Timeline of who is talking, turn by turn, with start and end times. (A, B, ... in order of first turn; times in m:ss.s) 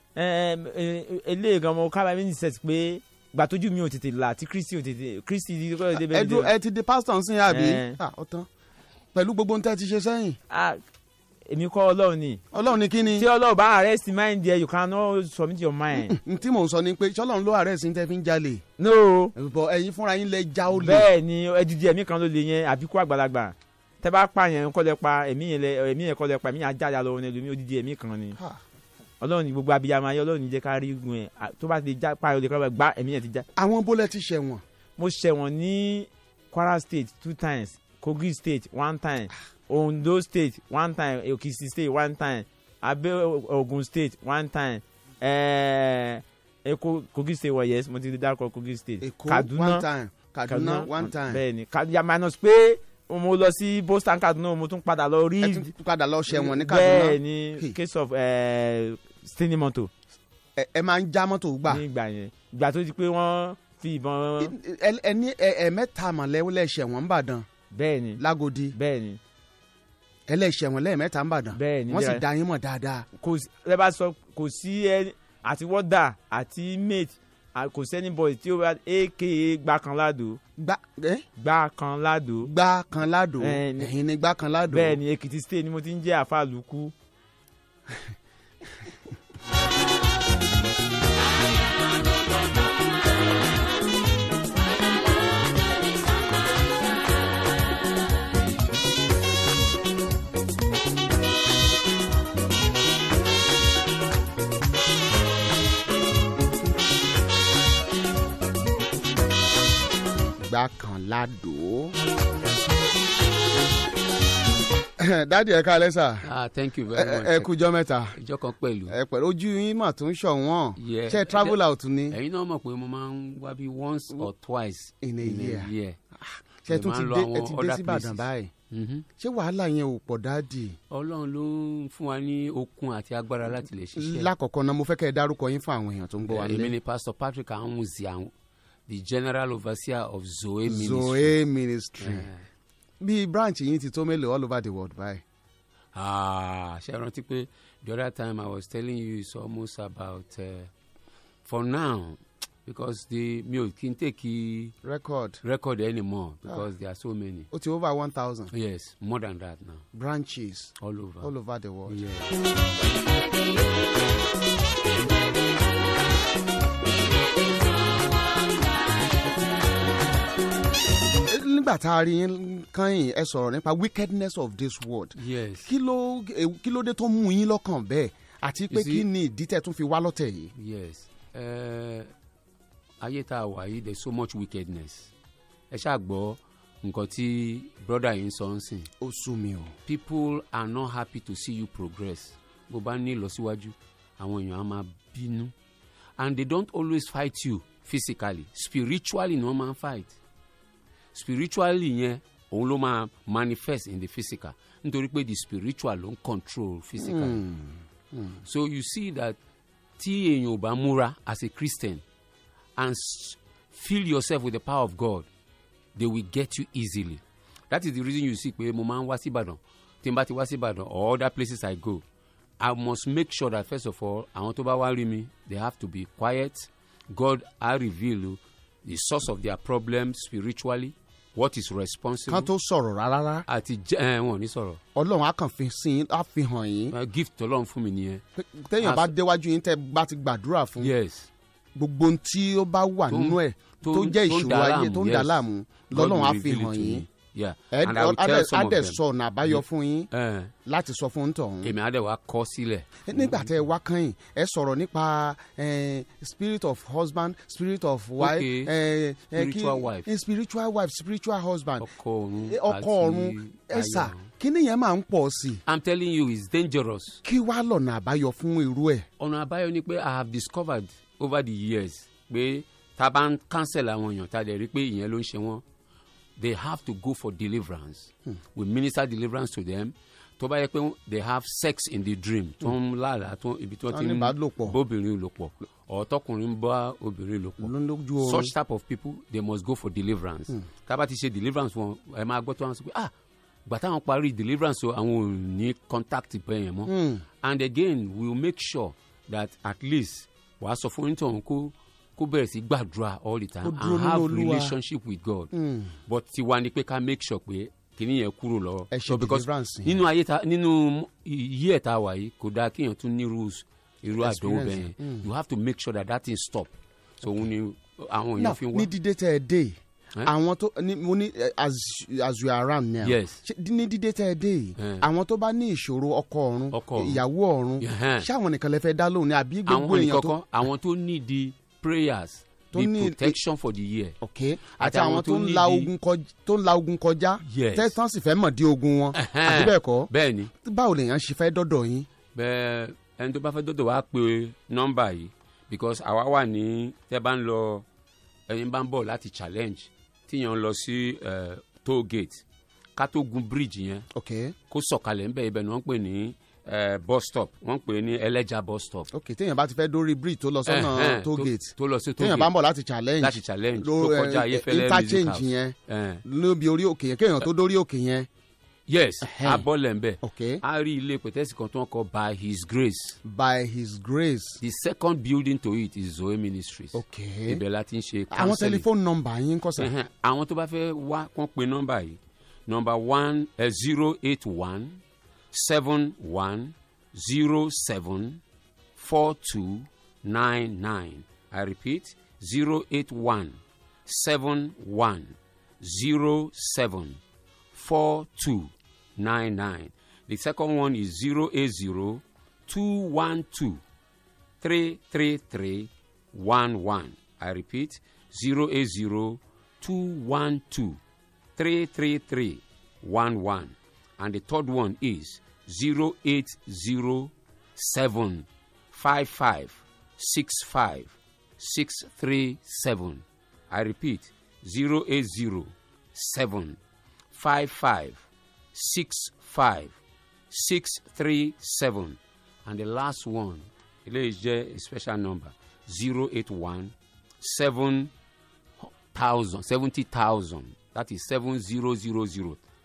0:00.1-0:06.5 A
0:05.9-0:08.5 B
0:07.5-0:08.0 A
0:09.1-0:10.4 B
0:10.5-0:10.8 A
0:11.5-0:12.4 A
0:12.5-0:13.3 B
0:13.2-0:16.1 A
0:15.9-0:18.6 B
0:18.8-0:19.3 A
0:19.3-0:21.1 B
0:20.7-0:28.4 A
0:29.2-0:33.4 A
0:33.6-0:34.6 B
0:35.0-0:49.8 A
0:49.0-0:51.4 B
0:50.5-0:55.7 A
0:55.4-0:57.8 B
0:56.3-0:59.9 A
1:00.6-1:01.8 B
1:01.7-1:04.5 A
1:04.4-1:07.5 B
1:07.7-1:08.2 A
1:08.2-1:08.8 B
1:08.7-1:09.2 A
1:10.3-1:13.1 B
1:11.5-1:12.2 A
1:13.2-1:20.4 A
1:20.6-1:21.2 B
1:21.4-1:22.5 A
1:22.4-1:25.0 B
1:23.4-1:23.9 A
1:24.7-1:26.9 A
1:50.4-1:51.9 B
1:55.0-1:56.3 B
1:56.2-1:57.5 C
1:56.9-1:58.2 B
1:58.1-1:59.0 C
1:58.9-2:02.2 B
2:00.8-2:01.6 C
2:02.1-2:06.0 C
2:05.0-2:08.5 B
2:06.7-2:09.0 C
2:09.2-2:10.8 B
2:10.9-2:14.3 C
2:14.0-2:16.7 B
2:16.3-2:18.3 C
2:18.9-2:21.3 C
2:20.6-2:22.3 B
2:22.0-2:22.4 C
2:23.0-2:25.2 B
2:25.9-2:30.7 C
2:31.4-2:34.7 C
2:34.8-2:35.4 B
2:35.4-2:37.5 C
2:37.5-2:38.5 B
2:38.5-2:39.8 C
2:39.9-2:42.0 B
2:40.8-2:41.3 C
2:41.9-2:42.3 C
2:51.2-3:00.5 B
2:55.2-2:55.7 C
2:58.7-2:59.1 C
3:00.6-3:02.1 C
3:03.0-3:05.1 C
3:05.7-3:08.9 C
3:09.0-3:09.7 B
3:09.9-3:15.5 C
3:16.2-3:20.1 C
3:21.1-3:27.4 C
3:27.0-3:28.4 B
3:28.4-3:29.4 C
3:30.0-3:32.0 C
3:32.8-3:35.3 C
3:35.9-3:42.0 C
3:42.6-3:52.5 C
3:52.3-3:53.4 B
3:53.5-3:54.8 C
3:54.9-3:56.9 B
3:56.9-3:58.2 C
3:58.4-4:00.9 B
3:58.8-3:59.1 C
4:00.8-4:01.3 C
4:01.8-4:07.1 B
4:03.1-4:10.5 C
4:07.7-4:10.1 B
4:10.6-4:11.7 B
4:11.6-4:13.5 C
4:13.0-4:21.9 B
4:18.2-4:18.7 C
4:19.3-4:20.1 C
4:21.8-4:24.3 C
4:22.4-4:25.6 B
4:25.6-4:27.2 C
4:27.2-4:29.1 B
4:29.2-4:35.6 C
4:36.4-4:53.1 C
4:43.9-4:44.8 B
4:47.6-4:48.5 B
4:53.6-4:56.9 C
4:56.8-4:57.2 B
4:57.4-5:05.5 C
5:03.6-5:04.7 B
5:05.5-5:05.9 B
5:06.0-5:18.9 C
5:08.9-5:10.0 B
5:14.2-5:15.3 B
5:18.4-5:30.4 B
5:23.0-5:23.4 C
5:24.8-5:25.0 C
5:26.7-5:27.2 C
5:27.8-5:28.3 C
5:29.7-5:34.2 C
5:32.7-5:33.4 B
5:34.2-5:40.1 B
5:34.8-5:35.9 C
5:37.4-5:37.9 C
5:39.1-5:40.5 C
5:40.6-5:42.1 B
5:42.3-5:47.8 C
5:48.5-5:52.4 C
5:53.0-5:54.0 C
5:54.1-5:54.6 B
5:54.7-5:59.1 C
5:59.1-6:08.3 B
6:00.6-6:02.5 C
6:03.2-6:06.2 C
6:08.9-6:13.2 C
6:09.2-6:09.7 B
6:10.2-6:10.6 B
6:13.2-6:14.6 B
6:14.6-6:18.8 C
6:16.9-6:17.6 B
6:18.3-6:19.9 B
6:19.8-6:25.0 C
6:25.5-6:28.4 C
6:29.0-6:37.2 C
6:37.7-6:43.8 C
6:44.6-6:51.0 C
6:51.6-7:06.8 C
7:07.3-7:08.2 C
7:08.7-7:09.9 C
7:10.5-7:18.1 C
7:18.8-7:22.6 C